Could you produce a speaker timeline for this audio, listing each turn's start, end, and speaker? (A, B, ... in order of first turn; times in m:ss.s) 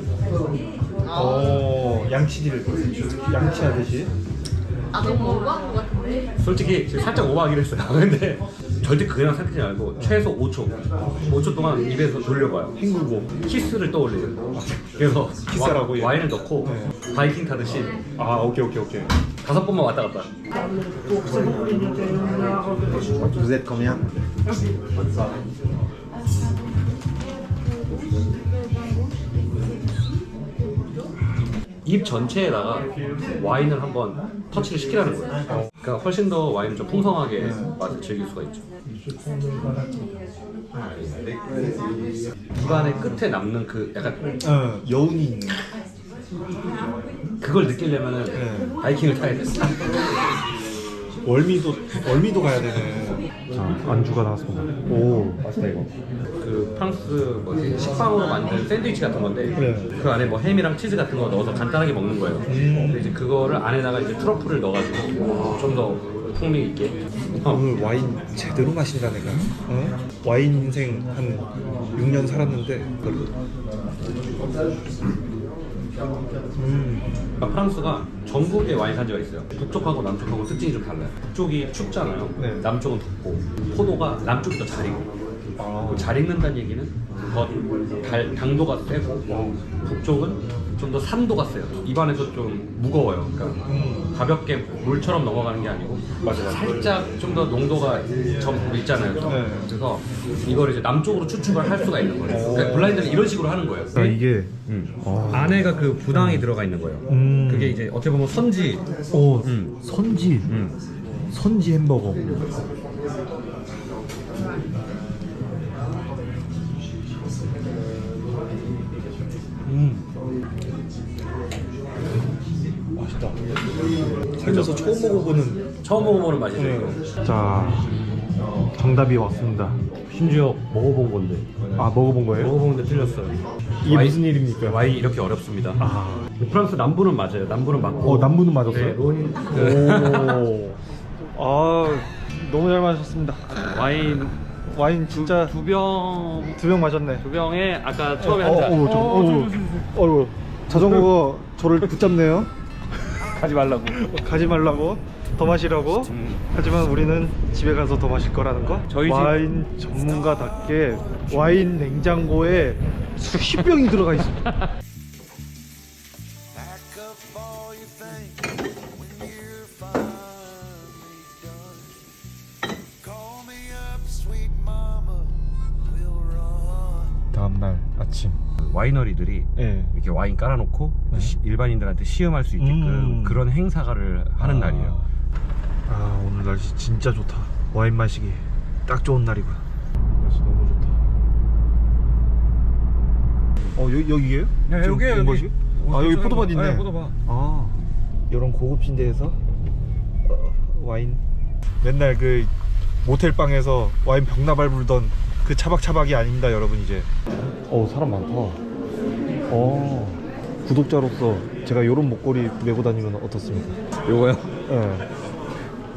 0:01.1-0:04.1 A
0:04.9-0:05.9 B
0:06.4-0:12.7 C
0:10.0-0:10.3 A
0:12.8-0:13.3 A
0:13.4-0:18.0 C
0:15.5-0:16.9 A
0:18.2-0:19.1 A
0:19.4-0:20.3 C
0:23.3-0:24.0 A
0:31.8-0:38.7 C
0:37.4-0:37.7 A
0:40.8-0:41.2 C
0:42.5-0:44.2 C
0:42.6-0:43.2 A
0:44.4-0:45.6 A
0:47.4-0:49.8 C
0:48.3-0:48.7 A
0:51.2-0:55.9 A
0:56.4-1:07.6 C
0:59.6-0:59.9 A
1:02.4-1:03.0 A
1:07.4-1:13.3 A
1:16.5-1:17.1 A
1:17.4-1:25.1 C
1:22.4-1:22.7 A
1:25.6-1:26.2 A
1:25.8-1:29.3 C
1:29.3-1:29.6 A
1:29.8-1:48.8 C
1:33.6-1:34.1 A
1:36.2-1:36.9 A
1:39.2-1:39.7 A
1:42.3-1:43.3 A
1:43.9-1:46.5 A
1:47.1-1:47.8 A
1:49.1-1:50.5 A
1:49.4-1:49.7 C
1:50.5-1:50.8 C
1:51.3-1:52.3 A
1:59.6-2:00.1 C
2:02.9-2:03.4 A
2:04.4-2:05.6 A
2:04.4-2:04.8 C
2:05.8-2:07.0 C
2:06.6-2:07.9 A
2:08.8-2:09.8 A
2:10.1-2:11.4 C
2:11.8-2:12.5 A
2:12.4-2:15.8 C
2:13.8-2:14.9 A
2:15.8-2:16.3 A
2:16.4-2:20.5 C
2:18.0-2:19.0 A
2:19.5-2:20.8 A
2:21.3-2:23.7 A
2:23.6-2:24.4 C
2:24.7-2:25.6 A
2:25.1-2:26.6 C
2:26.6-2:27.2 A
2:27.2-2:29.9 C
2:28.2-2:32.5 A
2:33.2-2:34.1 C
2:33.9-2:44.4 A
2:35.9-2:36.5 C
2:38.9-2:39.4 C
2:44.4-2:44.7 C
2:46.9-2:47.8 B
2:49.4-2:50.2 B
2:53.4-2:54.7 B
2:57.3-2:58.4 A
2:58.6-3:05.0 C
2:59.6-2:59.9 A
3:02.6-3:03.4 A
3:04.4-3:05.1 A
3:05.9-3:09.6 A
3:10.2-3:11.0 A
3:13.7-3:19.4 A
3:14.7-3:17.2 C
3:20.2-3:21.2 A
3:21.8-3:22.5 A
3:23.0-3:27.1 A
3:27.7-3:28.6 A
3:29.5-3:33.8 A
3:34.0-3:34.6 C
3:34.6-3:35.1 A